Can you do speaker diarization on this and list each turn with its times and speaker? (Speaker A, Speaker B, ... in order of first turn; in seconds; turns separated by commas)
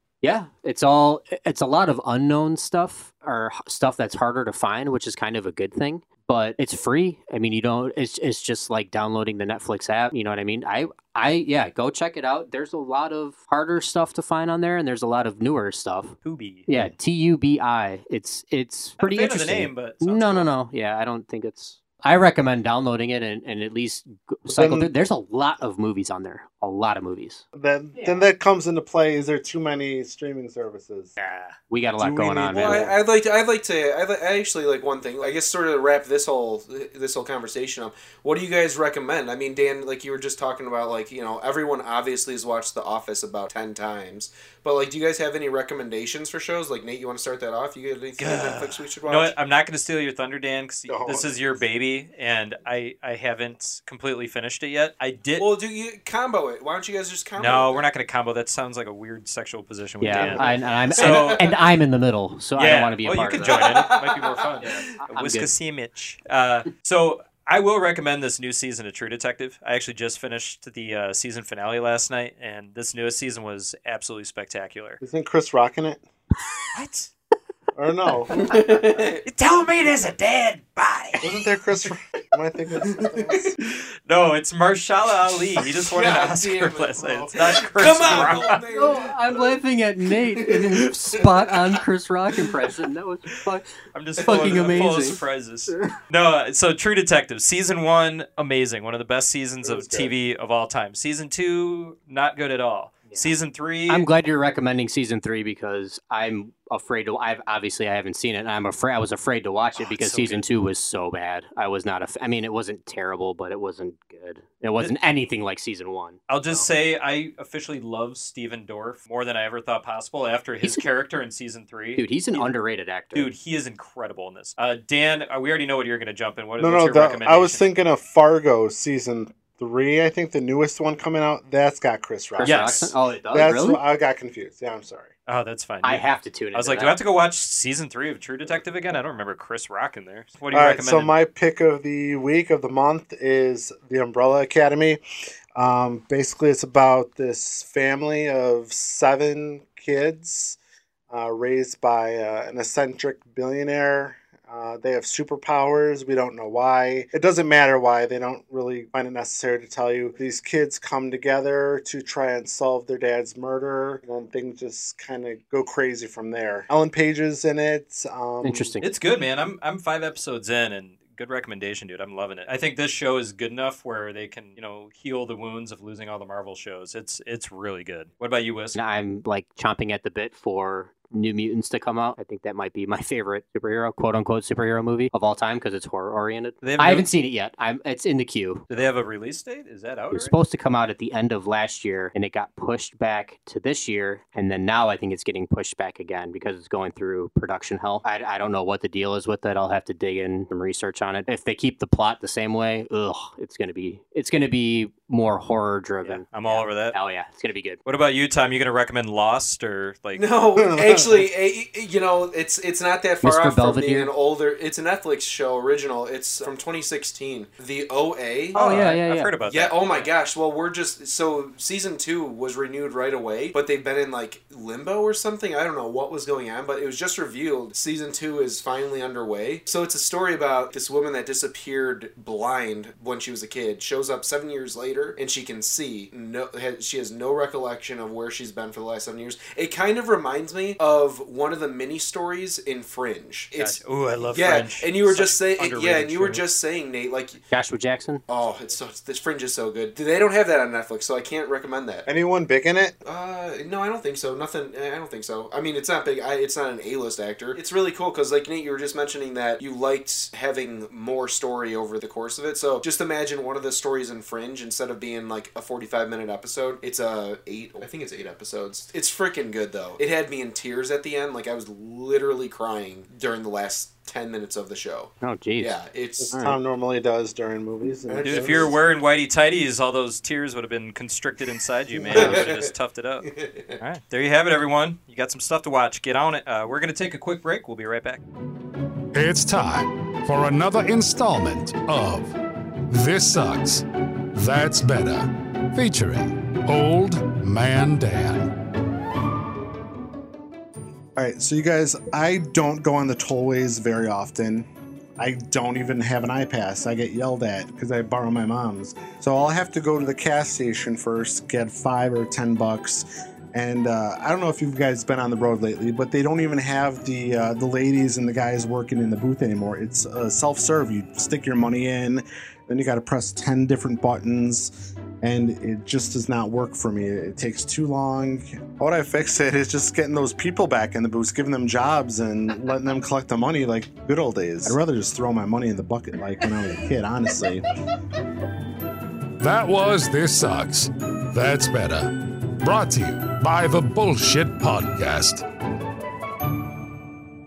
Speaker A: 0.2-16.2, Speaker B: 16.2-16.7, Speaker A: 16.7-27.4, Speaker B: 19.0-20.5, Speaker C: 24.5-24.9, Speaker C: 27.5-31.1, Speaker A: 28.0-28.2, Speaker A: 31.2-32.9, Speaker C: 32.0-32.9, Speaker D: 32.5-49.3, Speaker B: 48.2-55.5, Speaker C: 50.9-51.3, Speaker D: 55.4-57.9, Speaker B: 57.4-61.5, Speaker A: 60.0-63.7, Speaker D: 60.1-61.6, Speaker B: 62.6-75.0, Speaker D: 63.5-64.8, Speaker A: 64.6-65.5, Speaker C: 75.0-76.0, Speaker B: 76.7-77.1, Speaker C: 77.8-78.5, Speaker D: 78.4-79.2, Speaker B: 79.2-81.3, Speaker C: 81.2-83.5, Speaker D: 83.0-83.5, Speaker B: 84.1-88.6, Speaker D: 85.7-89.6, Speaker A: 88.7-93.7, Speaker D: 90.3-91.8, Speaker B: 93.9-104.1, Speaker A: 94.2-95.9, Speaker D: 94.2-94.8, Speaker C: 99.6-100.1, Speaker A: 103.9-116.7, Speaker B: 109.8-110.5, Speaker B: 116.3-122.5, Speaker A: 122.0-123.3, Speaker B: 123.1-127.7, Speaker C: 126.6-135.1, Speaker A: 132.4-133.8, Speaker B: 132.4-132.9, Speaker B: 135.3-141.1, Speaker A: 135.8-136.9, Speaker C: 140.5-145.0, Speaker C: 145.6-150.6, Speaker C: 151.1-168.7, Speaker A: 168.4-168.9, Speaker B: 168.8-178.8, Speaker A: 178.8-188.9, Speaker B: 186.6-187.1, Speaker B: 188.7-190.3, Speaker A: 190.1-207.8, Speaker B: 206.0-206.9, Speaker B: 207.9-210.2, Speaker D: 210.2-218.8, Speaker C: 210.6-211.2, Speaker A: 213.2-214.1, Speaker A: 218.5-219.3, Speaker B: 218.5-220.1, Speaker D: 219.4-243.8, Speaker B: 243.6-246.4, Speaker D: 244.3-247.4, Speaker A: 247.5-248.2, Speaker D: 248.3-252.1, Speaker C: 252.1-253.0, Speaker D: 253.0-276.4, Speaker A: 275.2-275.8, Speaker C: 276.2-278.7, Speaker D: 278.1-278.8, Speaker B: 278.2-283.3, Speaker C: 281.9-282.4, Speaker D: 282.1-282.7, Speaker D: 283.2-283.8, Speaker B: 283.8-288.2, Speaker E: 289.1-292.4, Speaker E: 292.9-298.5, Speaker C: 301.2-304.7, Speaker C: 305.2-337.7, Speaker E: 339.4-345.4